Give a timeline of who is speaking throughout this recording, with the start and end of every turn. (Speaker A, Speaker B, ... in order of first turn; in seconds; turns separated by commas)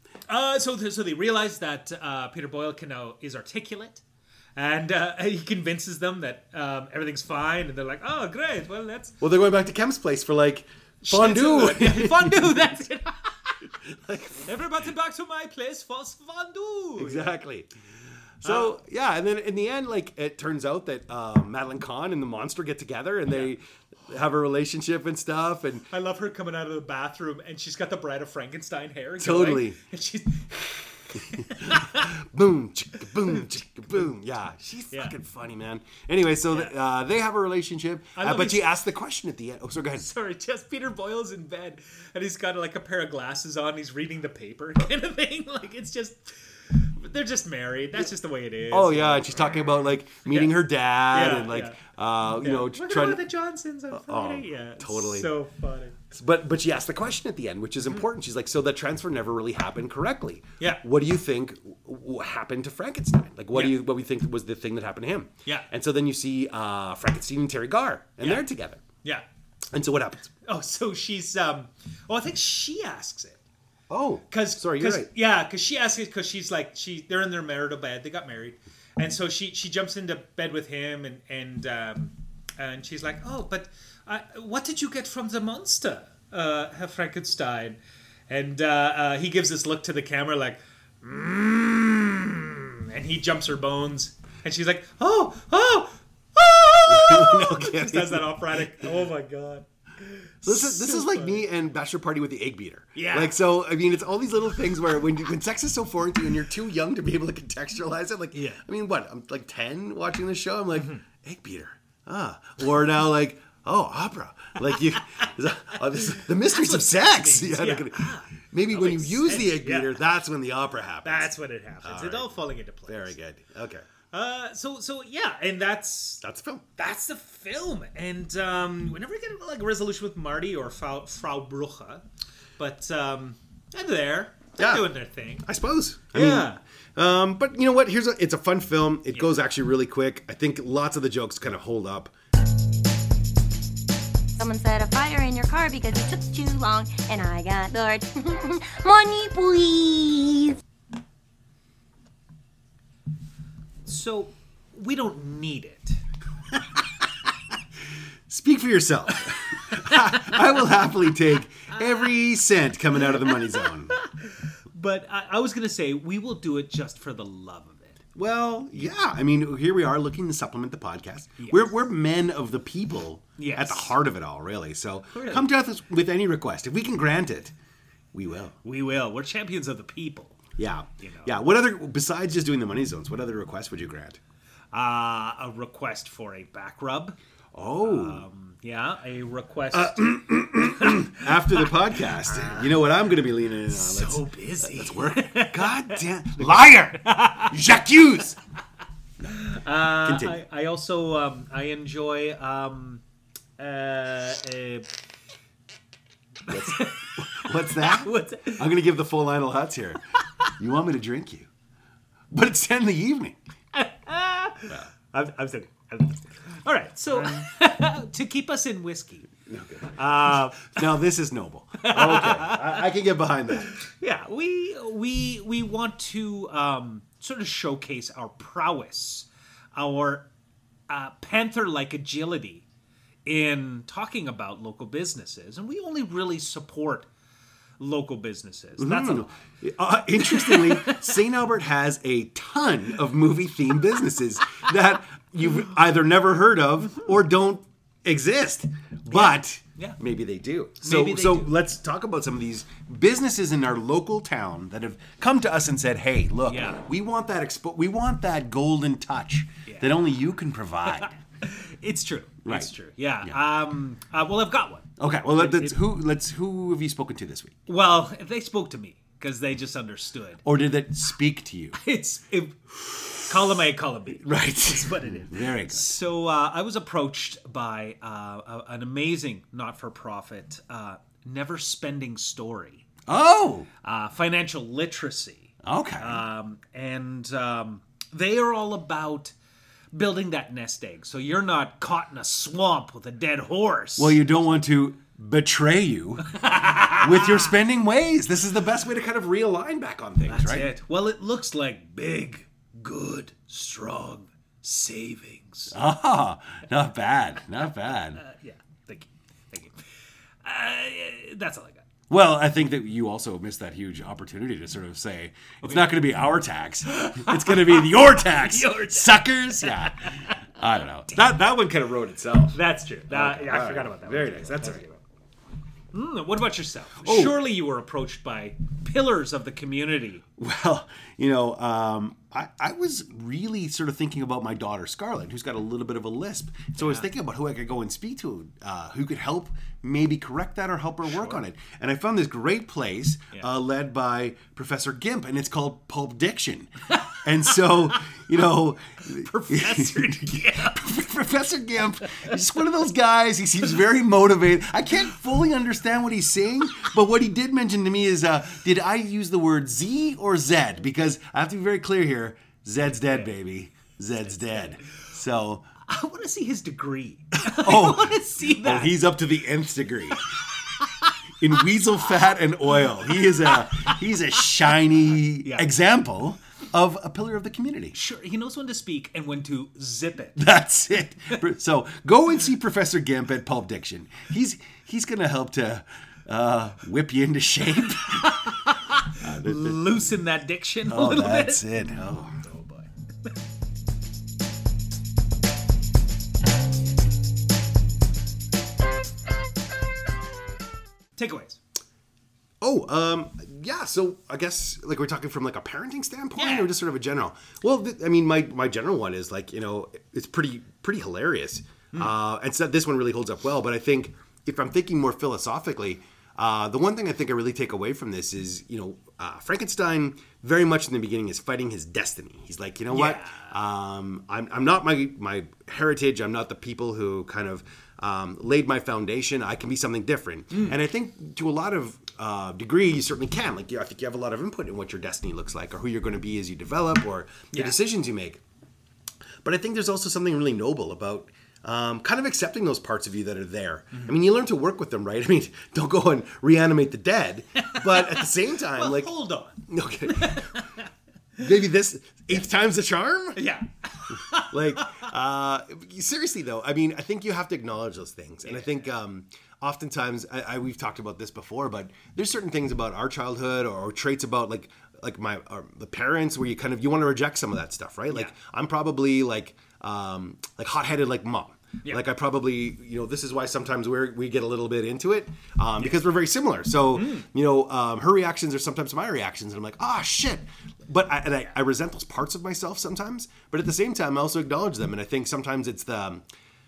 Speaker A: 0.3-4.0, Speaker A: 4.6-9.2, Speaker B: 9.2-12.6, Speaker A: 11.0-13.7, Speaker B: 13.8-14.6, Speaker A: 14.4-17.3, Speaker B: 17.0-17.7, Speaker B: 18.4-25.9, Speaker A: 18.4-18.8, Speaker A: 25.9-32.2, Speaker B: 29.2-29.8, Speaker B: 31.1-40.1, Speaker A: 38.2-38.7, Speaker A: 40.0-50.6, Speaker B: 48.7-53.2, Speaker A: 51.1-56.0, Speaker B: 53.9-55.3, Speaker B: 56.1-68.8, Speaker A: 68.2-68.5, Speaker B: 69.7-70.3, Speaker A: 70.5-73.4, Speaker B: 73.9-75.1, Speaker A: 74.3-87.8, Speaker A: 88.3-101.5, Speaker B: 96.9-98.4, Speaker B: 100.4-123.8, Speaker A: 103.0-103.4, Speaker A: 108.3-108.6, Speaker A: 110.8-111.0, Speaker A: 115.9-120.0, Speaker A: 121.0-123.2, Speaker A: 124.1-126.2, Speaker B: 126.2-126.6, Speaker A: 126.8-132.0, Speaker A: 132.6-135.5, Speaker B: 134.6-142.1, Speaker A: 136.1-136.6, Speaker A: 139.1-139.4, Speaker C: 144.3-150.6, Speaker A: 153.9-156.0, Speaker B: 158.3-164.0, Speaker A: 159.7-160.4, Speaker A: 163.0-168.0, Speaker B: 168.2-177.5, Speaker A: 171.4-171.7, Speaker A: 173.4-173.9, Speaker A: 175.1-175.5, Speaker B: 178.1-178.6, Speaker A: 178.6-180.4, Speaker B: 180.6-184.2, Speaker A: 181.0-181.4, Speaker A: 184.7-187.2, Speaker B: 187.5-188.2, Speaker A: 187.8-192.8, Speaker B: 189.7-198.4, Speaker A: 193.6-197.6, Speaker A: 199.2-203.0, Speaker B: 199.9-200.4, Speaker A: 203.6-204.9, Speaker A: 206.5-208.7, Speaker B: 206.5-211.5, Speaker B: 212.3-213.4, Speaker A: 213.7-219.3, Speaker B: 219.5-223.8, Speaker A: 219.9-220.9, Speaker A: 221.8-222.9, Speaker A: 223.5-230.3, Speaker A: 230.9-232.7, Speaker A: 233.2-237.1, Speaker A: 237.8-239.4, Speaker B: 238.8-261.2, Speaker A: 240.2-241.1, Speaker A: 249.1-250.0, Speaker A: 250.8-251.6, Speaker A: 256.5-256.8, Speaker A: 259.7-259.9, Speaker A: 261.0-265.8, Speaker B: 262.4-263.4, Speaker B: 265.0-267.6, Speaker A: 267.7-270.4, Speaker B: 270.4-271.8, Speaker A: 271.8-282.9, Speaker B: 274.2-275.9, Speaker B: 283.1-283.7, Speaker A: 283.8-289.4, Speaker B: 285.6-286.2, Speaker A: 289.9-294.2, Speaker B: 294.0-296.3, Speaker A: 296.2-297.5, Speaker B: 296.9-300.7, Speaker A: 300.2-305.8, Speaker B: 305.7-308.2, Speaker A: 307.9-309.8, Speaker A: 310.4-311.9, Speaker B: 312.1-324.9, Speaker A: 316.9-320.5, Speaker A: 322.5-325.0, Speaker A: 325.9-330.2, Speaker B: 327.0-327.4, Speaker B: 330.4-346.7, Speaker A: 336.8-337.1, Speaker A: 341.1-341.4, Speaker A: 347.0-347.7, Speaker B: 347.2-365.7, Speaker A: 349.1-350.9, Speaker A: 365.9-369.0, Speaker B: 367.4-370.3, Speaker A: 370.2-371.1, Speaker B: 371.4-377.9, Speaker A: 373.1-374.0, Speaker A: 375.4-375.7, Speaker A: 377.9-380.5, Speaker B: 380.4-388.6, Speaker A: 388.1-392.9, Speaker B: 389.2-390.0, Speaker B: 390.9-392.4, Speaker A: 401.2-401.6, Speaker B: 402.6-438.4, Speaker A: 406.4-406.7, Speaker A: 422.9-423.5, Speaker A: 437.5-437.8, Speaker B: 439.4-449.1, Speaker A: 447.6-450.9, Speaker B: 449.7-450.6, Speaker B: 451.4-453.4, Speaker A: 453.4-455.1, Speaker B: 454.3-486.2, Speaker A: 458.4-458.9, Speaker A: 476.9-477.3